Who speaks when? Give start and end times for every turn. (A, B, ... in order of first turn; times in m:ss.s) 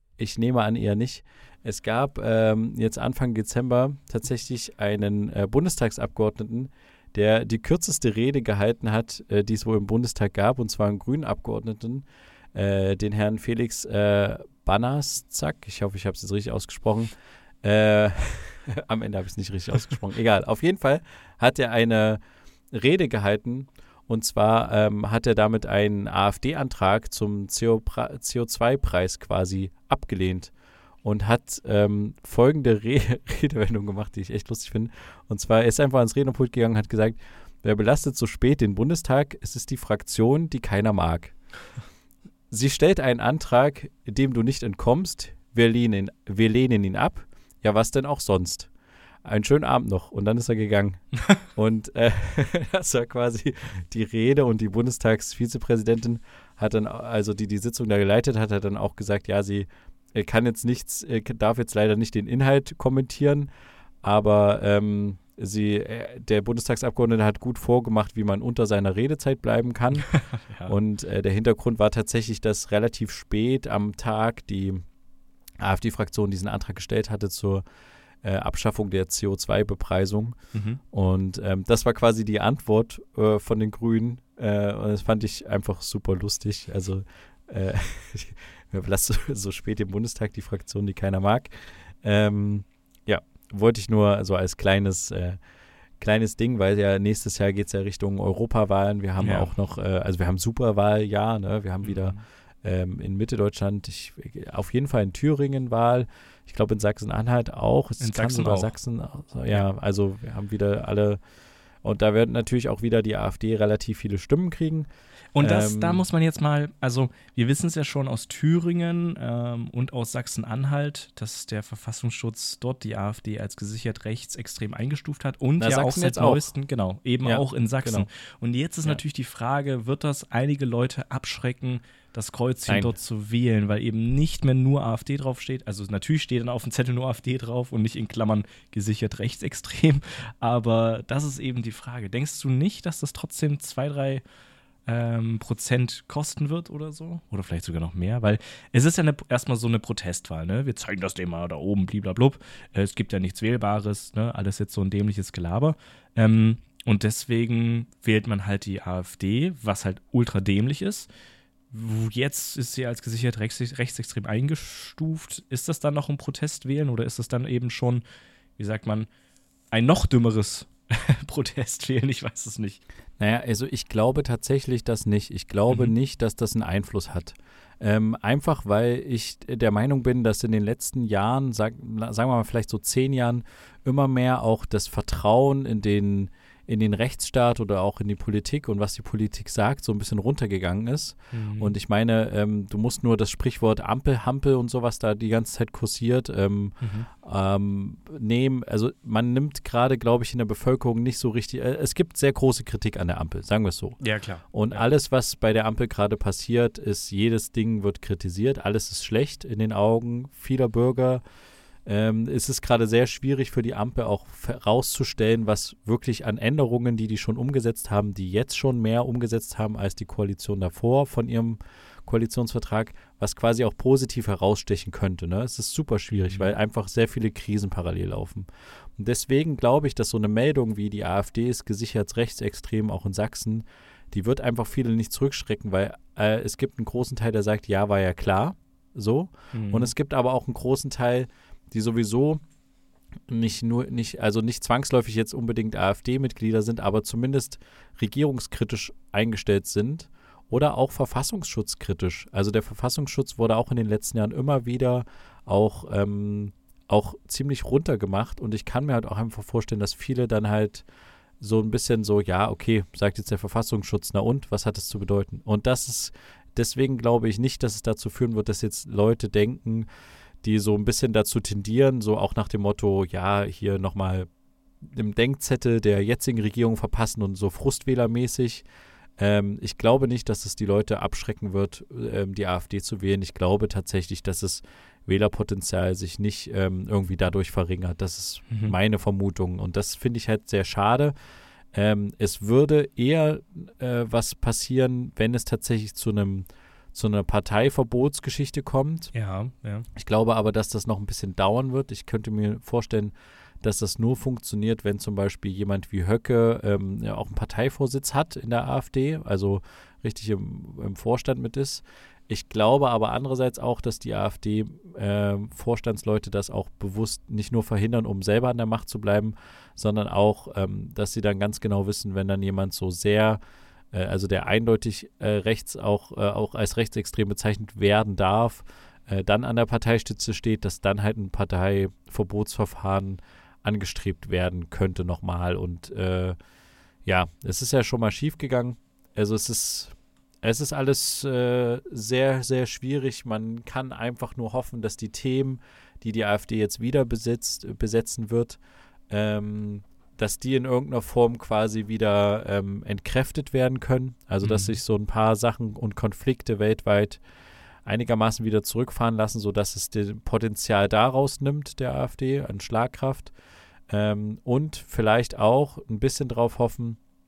0:00.2-0:17.1 A
0:17.6-0:22.2 A
0:22.7-0:30.5 A
0:31.0-0:41.4 A
0:42.5-0:48.7 A
0:49.2-1:03.5 A
1:04.0-1:10.1 A
1:10.0-1:10.8 B
1:10.7-1:14.8 A
1:15.6-1:17.6 A
1:18.2-1:20.4 A
1:20.5-1:20.8 B
1:20.9-1:35.4 A
1:36.0-1:51.2 A
1:39.2-1:39.5 B
1:41.8-1:42.2 B
1:48.0-1:48.7 B
1:51.8-1:54.9 A
1:55.3-2:24.2 B
1:55.4-1:56.0 A
2:05.6-2:06.5 A
2:07.2-2:08.1 A
2:12.7-2:12.9 A
2:24.9-2:41.1 B
2:41.7-2:48.0 B
2:48.6-2:49.1 B
2:49.7-2:52.8 B
2:53.2-3:31.2 A
3:11.3-3:11.7 B
3:16.8-3:17.1 B
3:24.0-3:24.8 B
3:31.8-3:48.5 A
3:46.1-3:46.5 B
3:49.0-4:02.4 A
3:59.5-3:59.9 B
4:03.3-4:20.8 A
4:21.4-4:29.9 A
4:30.4-4:34.3 A
4:34.8-4:38.7 A
4:39.2-4:51.1 A
4:48.5-4:48.8 B
4:51.7-4:59.1 A
4:59.1-4:59.9 B
5:00.0-5:23.4 A
5:23.9-5:36.4 A
5:37.0-5:57.2 A
5:54.4-5:54.7 B
5:57.8-6:03.3 A
6:03.9-6:07.0 A